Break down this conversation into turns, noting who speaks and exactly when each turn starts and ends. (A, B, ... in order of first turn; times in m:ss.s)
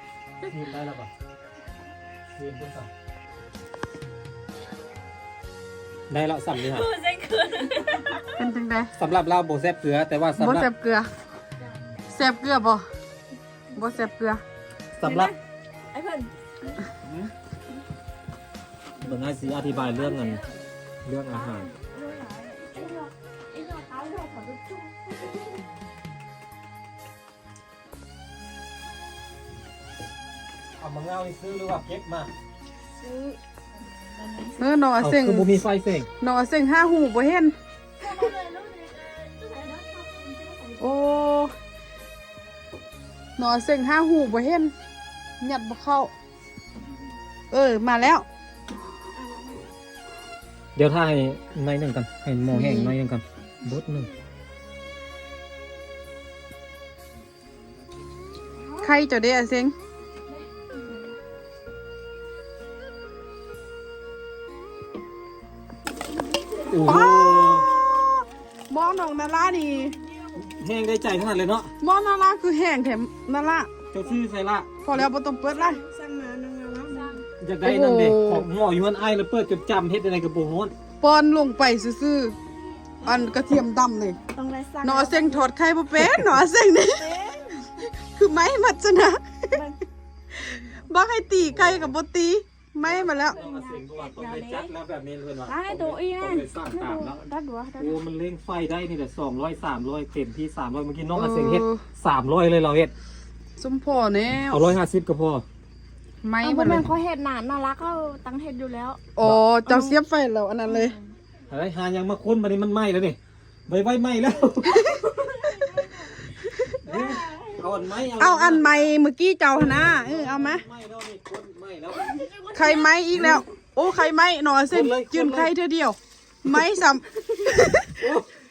0:00.5-0:01.1 A
0:02.4-0:02.9 A
0:06.1-0:06.9 A
0:06.6-0:08.4 B
0:08.4-0:08.9 C
0:09.0-0:10.7 A
0:10.4-0:11.1 C
0:11.6-0:11.9 B
0:12.1-0:12.8 C
0:13.7-0:14.0 B
0:13.8-0:14.4 C
0:14.9-0:15.3 A
0:15.0-0:15.4 B
0:15.9-0:16.9 B
0:17.0-0:17.3 A
0:19.0-0:20.4 A
0:19.0-0:20.5 B
0:21.0-0:21.7 A
0:21.3-0:25.6 B
0:30.8-0:32.3 A
0:33.0-0:34.6 B
0:34.6-0:35.6 C
0:35.0-0:36.1 A
0:36.2-0:37.6 C
0:38.0-0:41.0 B
0:40.8-0:41.5 C
0:43.4-0:44.7 C
0:45.4-0:46.1 C
0:47.5-0:48.3 C
0:49.1-0:49.7 B
0:50.8-0:54.1 A
0:52.5-0:52.9 C
0:58.6-0:58.9 B
0:58.8-0:59.7 C
1:00.7-1:01.1 B
1:06.4-1:07.0 B
1:06.7-1:07.7 A
1:06.8-1:10.0 C
1:09.8-1:10.4 B
1:10.4-1:11.7 A
1:11.8-1:13.7 C
1:13.9-1:15.1 A
1:14.8-1:15.8 C
1:15.2-1:17.2 B
1:17.4-1:20.7 A
1:17.6-1:18.5 C
1:21.0-1:22.4 C
1:23.0-1:23.4 B
1:23.0-1:24.2 C
1:24.2-1:25.5 B
1:24.8-1:27.1 C
1:26.9-1:27.8 B
1:27.8-1:29.6 C
1:29.5-1:29.8 B
1:30.5-1:33.4 C
1:31.4-1:32.0 A
1:32.8-1:37.2 A
1:33.3-1:34.7 B
1:35.5-1:38.0 B
1:37.8-1:42.9 A
1:41.2-1:41.8 C
1:43.6-1:44.7 C
1:44.5-1:45.4 A
1:46.2-1:46.9 C
1:46.4-1:49.0 B
1:49.2-1:51.0 C
1:49.7-1:50.0 B
1:50.6-1:51.1 B
1:51.5-1:54.9 A
1:54.6-1:55.0 C
1:54.7-1:57.9 B
1:56.5-1:56.8 C
1:56.8-1:58.8 A
1:58.2-2:00.6 C
1:59.5-2:02.2 A
2:01.9-2:03.4 B
2:02.5-2:08.1 C
2:03.2-2:03.4 A
2:04.7-2:05.5 A
2:08.0-2:08.3 A